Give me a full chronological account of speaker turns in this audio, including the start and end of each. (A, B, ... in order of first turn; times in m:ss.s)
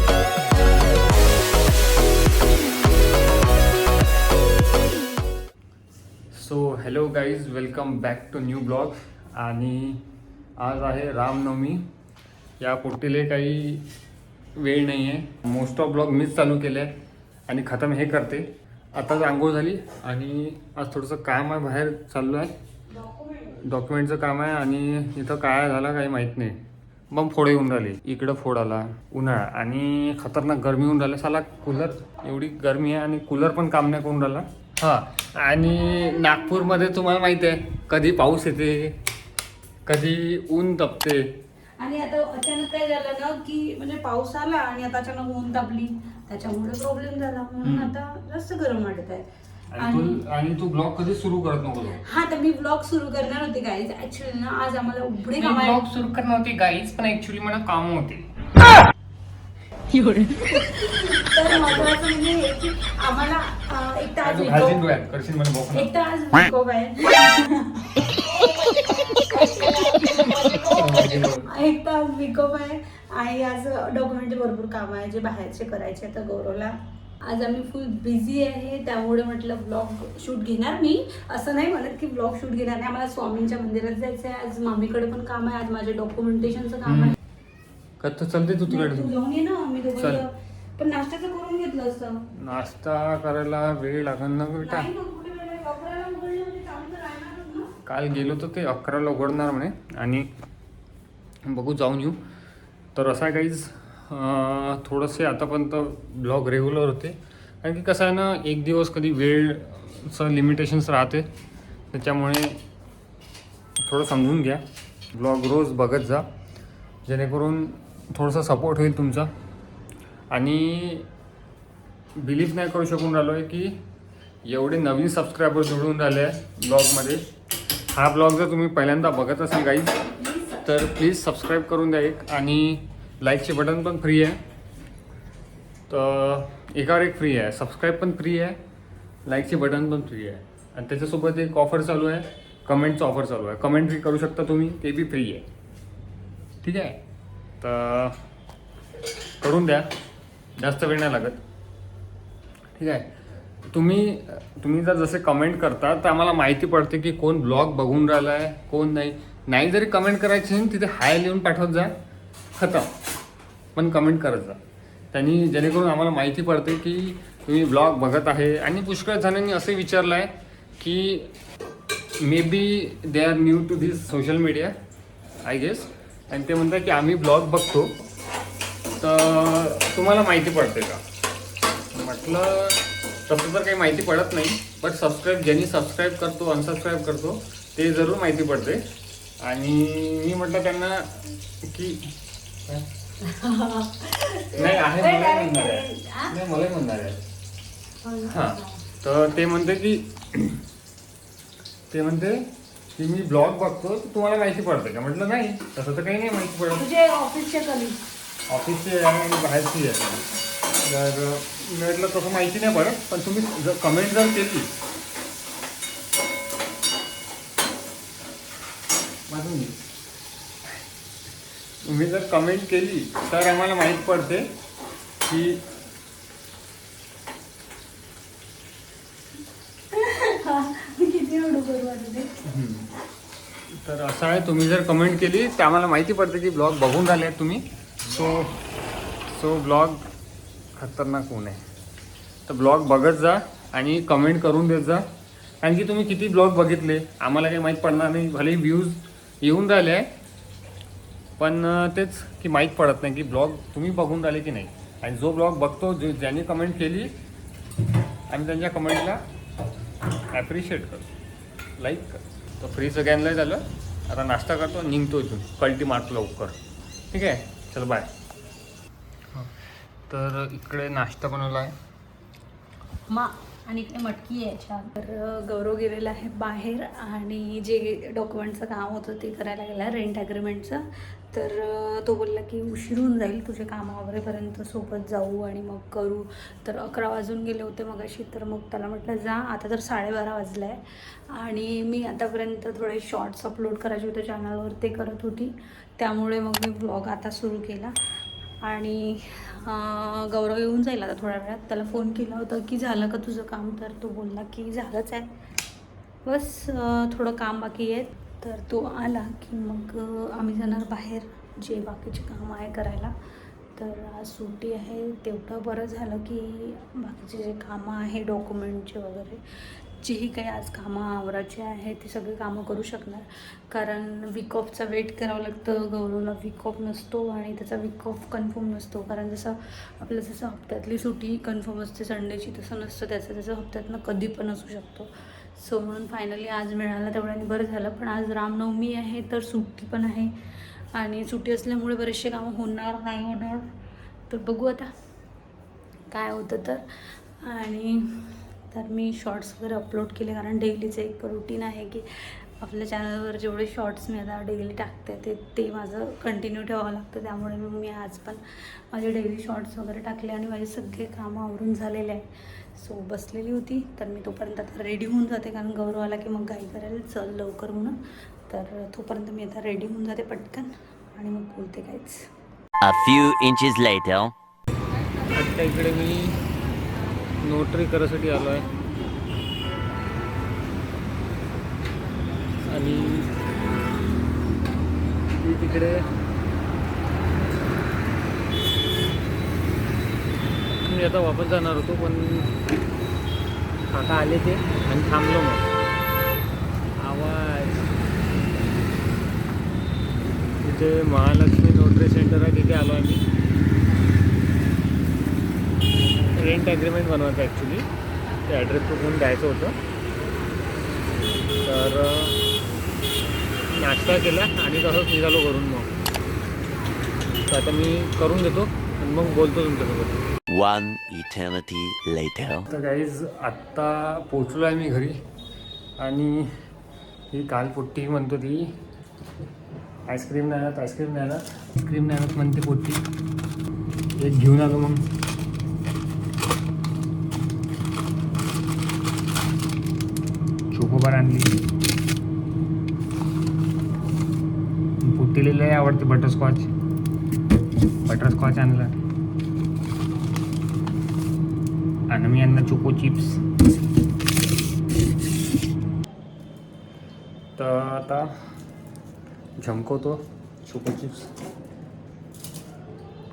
0:06.3-0:10.0 A
0:10.6-0:11.8 A
0:12.6-0:13.8 A
0:14.6-0:16.9 A
0:17.5-0:22.5 A
0:23.0-0:23.6 B
0:23.6-0:26.6 A
0:27.1-0:39.0 A
0:39.9-0:41.3 A
0:41.8-0:49.3 B
0:47.6-0:47.9 A
0:49.7-0:52.0 A
0:49.8-0:50.2 B
0:52.0-0:55.8 B
0:55.4-0:58.3 A
1:00.0-1:04.8 B
1:01.5-1:02.0 A
1:04.2-1:05.9 A
1:05.7-1:07.9 B
1:09.4-1:09.9 B
1:10.1-1:11.5 A
1:11.5-1:27.2 B
1:26.9-1:27.2 A
1:28.0-1:29.1 A
1:28.7-1:32.2 B
1:30.0-1:30.2 A
1:32.3-1:34.9 A
1:34.6-1:37.7 B
1:37.9-1:40.3 A
1:41.5-1:42.2 A
1:43.0-1:51.3 A
1:51.9-1:52.6 A
1:53.8-1:56.2 A
1:57.1-1:59.3 A
2:00.3-2:01.1 A
2:02.2-2:03.8 A
2:04.4-2:07.2 A
2:07.9-2:10.1 A
2:10.2-2:10.6 B
2:10.6-2:14.4 A
2:15.9-2:18.6 A
2:19.3-2:25.4 A
2:26.6-2:27.0 A
2:27.6-2:28.2 A
2:29.4-2:29.9 A
2:30.6-2:31.4 A
2:32.8-2:33.0 A
2:33.7-2:41.9 A
2:42.6-2:42.9 A
2:43.8-2:44.6 A
2:45.1-2:51.3 A
2:52.2-2:54.7 A
2:55.4-2:57.9 A
2:59.0-3:01.0 A
3:01.9-3:08.8 A
3:09.4-3:11.1 A
3:11.7-3:12.0 A
3:13.2-3:16.3 B
3:14.5-3:17.2 A
3:18.0-3:18.7 B
3:18.3-3:20.6 A
3:21.9-3:26.8 A
3:26.7-3:28.0 B
3:28.5-3:30.2 A
3:30.8-3:34.7 A
3:39.3-3:39.8 A
3:41.8-3:44.5 A
3:45.2-3:45.6 A
3:49.9-3:52.3 B
3:52.4-3:52.9 A
3:53.7-3:58.5 A
3:59.3-4:00.0 A
4:00.8-4:01.6 A
4:02.5-4:05.0 A
4:05.6-4:10.1 A
4:11.4-4:17.1 A
4:18.3-4:19.2 A
4:20.3-4:21.1 A
4:21.8-4:26.6 A
4:27.1-4:28.1 A
4:30.1-4:31.7 A
4:33.1-4:57.9 B
4:58.6-5:05.3 B
5:06.2-5:13.1 B
5:13.8-5:19.4 B
5:20.0-5:40.3 B
5:40.9-5:43.6 B
5:44.3-5:44.9 B
5:46.1-6:08.0 B
6:08.5-6:12.2 B
6:12.8-6:14.3 C
6:15.2-6:16.4 A
6:17.4-6:18.7 A
6:22.6-6:23.3 A
6:25.4-6:26.1 A
6:30.8-6:32.6 A
6:33.9-6:35.7 A
6:37.0-6:37.9 A
6:40.6-6:43.3 A
6:46.2-6:47.9 A
6:48.4-6:49.8 A
6:51.6-6:52.4 A
6:53.7-6:55.9 A
6:57.5-7:00.3 A
7:00.5-7:02.7 C
7:02.7-7:05.2 A
7:06.0-7:06.5 A
7:07.3-7:08.7 A
7:10.1-7:13.0 A
7:14.2-7:15.0 A
7:20.7-7:21.5 A
7:25.0-7:26.7 A
7:28.0-7:28.9 A
7:32.1-7:33.4 A
7:37.6-7:38.3 A
7:39.6-7:41.3 A